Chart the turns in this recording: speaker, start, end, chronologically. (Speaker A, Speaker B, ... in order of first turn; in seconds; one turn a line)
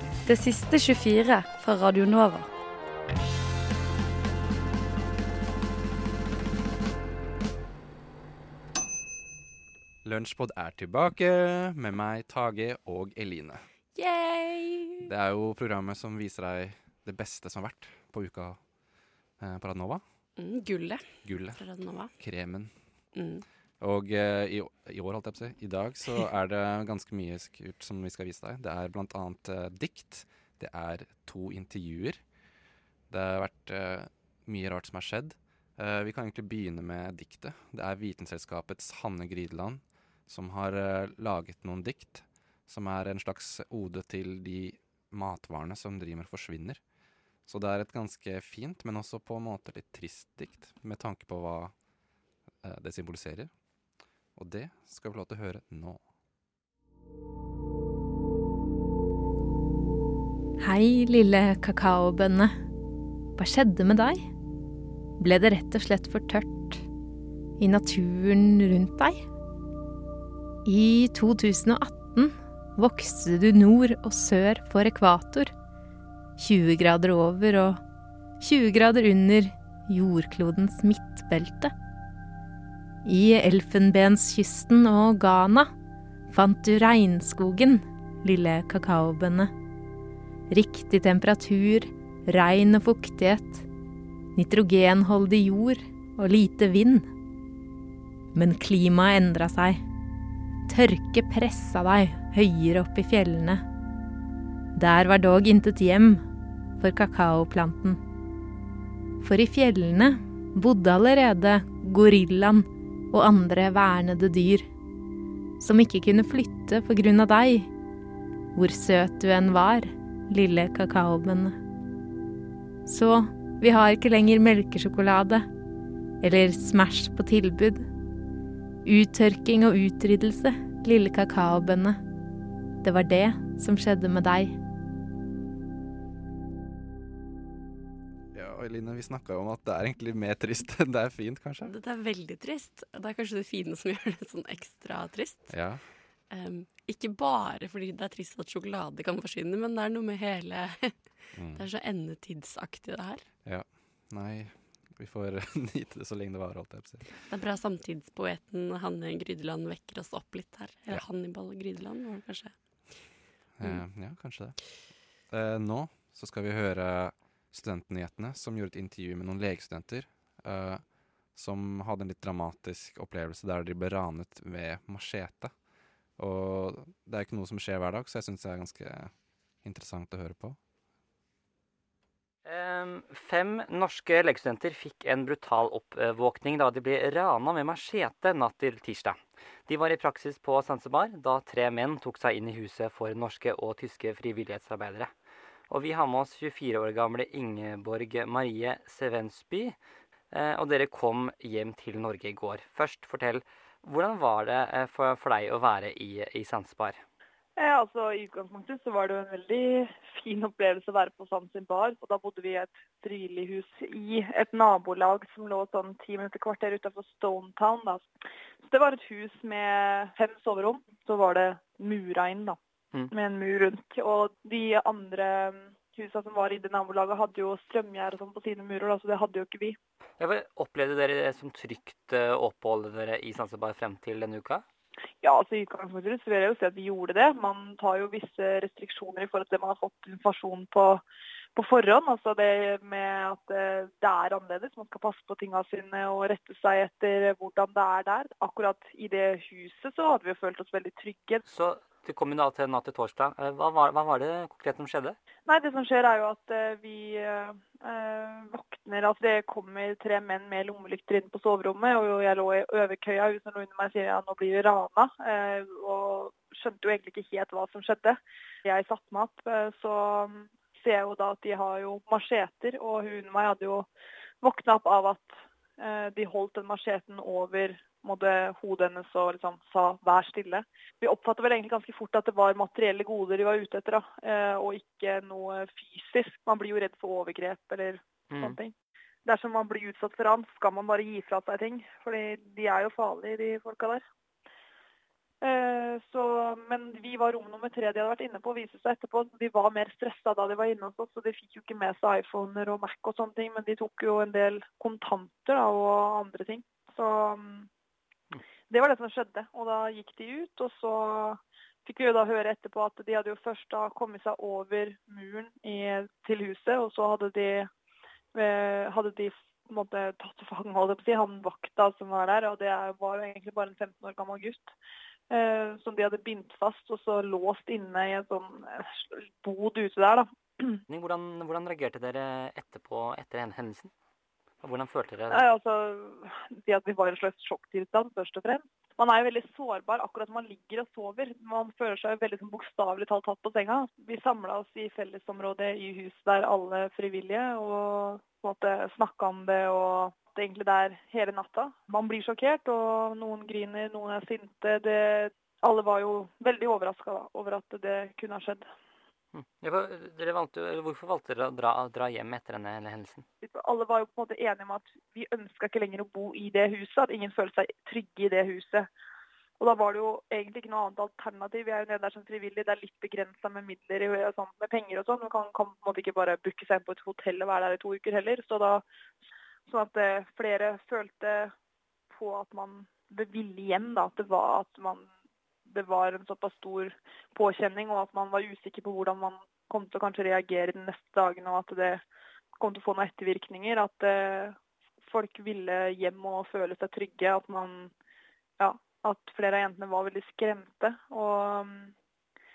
Speaker A: 0.2-2.5
Speaker B: 10.0-13.7
Speaker C: 13.9-15.0
Speaker B: 15.0-18.6
Speaker B: 19.4-20.0
Speaker C: 20.4-22.1
Speaker B: 21.2-22.8
Speaker C: 23.1-23.4
Speaker B: 23.8-32.2
Speaker B: 33.1-46.8
Speaker B: 47.4-51.7
Speaker B: 52.6-53.5
Speaker B: 54.3-56.0
Speaker D: 60.6-62.5
Speaker D: 63.4-64.3
Speaker D: 65.2-66.8
Speaker D: 67.6-69.2
Speaker D: 70.6-75.5
Speaker D: 76.4-77.8
Speaker D: 78.4-81.7
Speaker D: 83.0-85.7
Speaker D: 86.3-89.5
Speaker D: 90.5-93.7
Speaker D: 94.3-97.1
Speaker D: 98.3-99.8
Speaker D: 100.7-103.6
Speaker D: 104.7-106.2
Speaker D: 106.8-108.0
Speaker D: 109.2-114.7
Speaker D: 115.6-117.7
Speaker D: 118.5-121.6
Speaker D: 122.8-125.5
Speaker D: 126.2-127.9
Speaker D: 128.8-132.0
Speaker D: 132.8-134.6
Speaker B: 138.3-141.7
Speaker C: 141.6-153.2
Speaker B: 145.5-145.8
Speaker B: 151.3-151.6
Speaker B: 153.4-157.2
Speaker C: 157.3-163.8
Speaker B: 163.5-175.5
Speaker B: 176.2-180.6
Speaker E: 182.4-195.1
Speaker E: 195.7-199.8
Speaker E: 200.3-207.0
Speaker F: 207.6-218.0
Speaker F: 218.6-222.6
Speaker F: 223.1-229.8
Speaker E: 230.2-234.6
Speaker F: 235.2-241.0
Speaker F: 241.6-251.4
Speaker E: 251.4-255.2
Speaker F: 255.5-273.9
Speaker F: 274.4-288.7
Speaker E: 288.3-288.6
Speaker F: 289.2-294.0
Speaker F: 295.4-307.7
Speaker F: 308.7-317.7
Speaker F: 318.3-324.7
Speaker F: 325.3-330.8
Speaker E: 330.9-333.9
Speaker E: 334.6-335.4
Speaker F: 335.3-358.6
Speaker E: 359.3-363.2
Speaker F: 363.4-368.9
Speaker F: 369.6-378.8
Speaker F: 379.7-381.5
Speaker F: 382.1-385.1
Speaker F: 385.7-392.0
Speaker F: 392.6-397.9
Speaker F: 398.6-401.9